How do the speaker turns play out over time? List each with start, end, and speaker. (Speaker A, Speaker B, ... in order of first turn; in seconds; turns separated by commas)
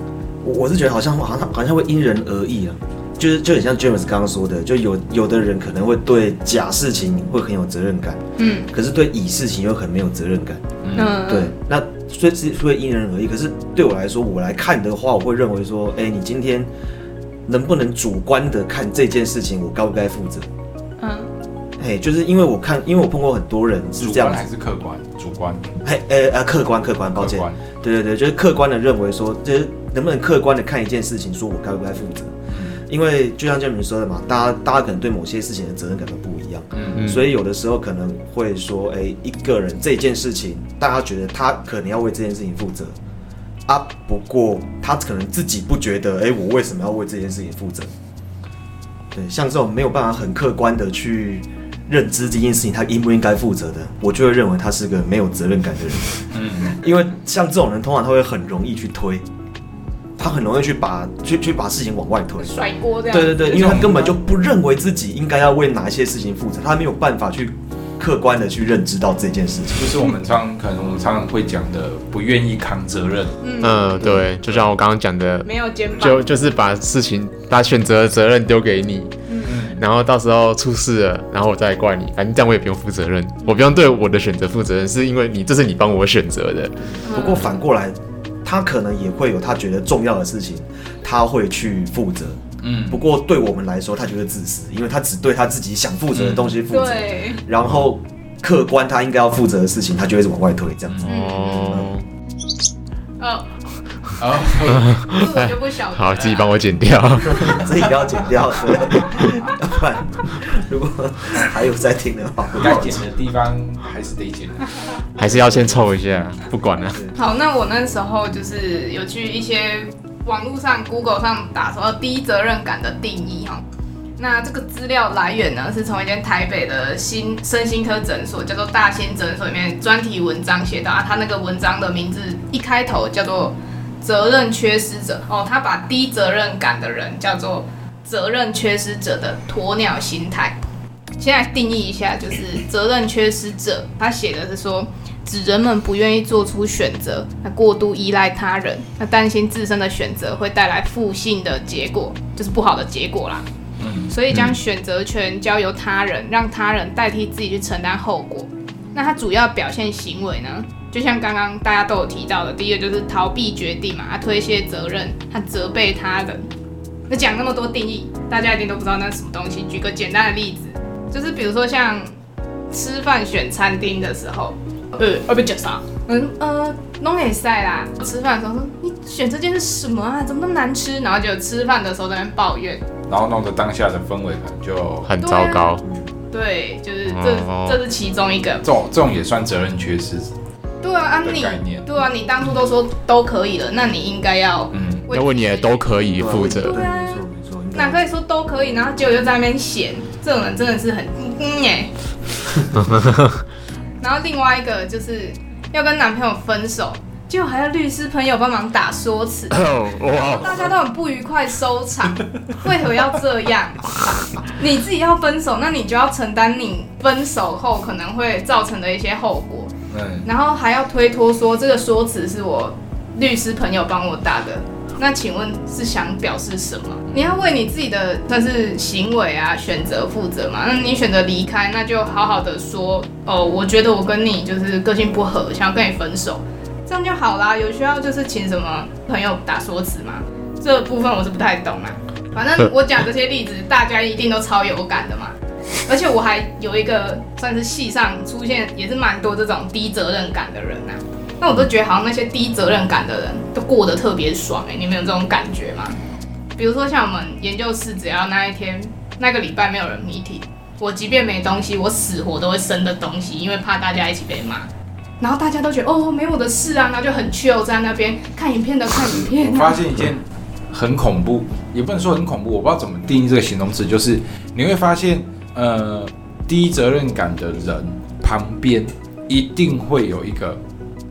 Speaker A: 0.4-10.6, Speaker B: 8.4-8.7, Speaker C: 10.8-11.2, Speaker B: 10.9-11.5, Speaker A: 11.2-16.7, Speaker A: 17.5-20.5, Speaker B: 21.0-21.3, Speaker A: 21.8-24.4, Speaker C: 24.0-25.7, Speaker A: 25.8-32.3, Speaker C: 27.2-27.6, Speaker C: 32.5-32.8, Speaker A: 32.9-43.0, Speaker C: 36.7-37.1, Speaker D: 36.9-37.3, Speaker A: 43.7-47.9, Speaker A: 49.1-59.2, Speaker C: 56.3-56.8, Speaker A: 60.2-62.5, Speaker B: 62.4-63.8, Speaker A: 63.1-70.0, Speaker C: 63.4-64.2, Speaker C: 69.8-73.3, Speaker B: 73.4-74.0, Speaker D: 73.6-87.0, Speaker B: 75.5-76.3, Speaker B: 79.3-79.5, Speaker C: 79.5-79.8, Speaker A: 86.9-92.4, Speaker B: 87.0-87.5, Speaker C: 92.6-93.0, Speaker A: 92.9-101.1, Speaker C: 96.1-96.6, Speaker B: 96.7-97.4, Speaker B: 101.0-101.8, Speaker D: 101.0-102.1, Speaker B: 103.2-103.5, Speaker C: 104.2-105.1, Speaker D: 104.8-107.8, Speaker B: 105.1-106.5, Speaker A: 107.4-113.0, Speaker C: 112.6-114.7, Speaker D: 115.2-117.0, Speaker A: 115.2-115.8, Speaker B: 117.2-123.6, Speaker B: 124.2-140.6, Speaker B: 141.2-153.5, Speaker C: 153.8-154.1, Speaker B: 154.1-166.5, Speaker B: 167.1-172.1, Speaker B: 172.7-182.8, Speaker C: 183.1-185.1, Speaker D: 185.1-185.9, Speaker B: 185.2-185.7, Speaker B: 186.3-188.6, Speaker D: 187.1-187.8, Speaker C: 188.6-190.3, Speaker B: 190.8-197.2, Speaker C: 191.2-191.9, Speaker C: 194.7-195.1, Speaker D: 195.1-196.8, Speaker A: 196.2-198.1, Speaker B: 197.8-201.9, Speaker D: 202.8-203.4, Speaker B: 204.0-219.7, Speaker D: 209.5-210.7, Speaker C: 219.9-220.3, Speaker B: 220.2-256.0, Speaker C: 227.1-227.4, Speaker B: 256.6-264.7, Speaker B: 265.2-269.8, Speaker C: 269.0-280.6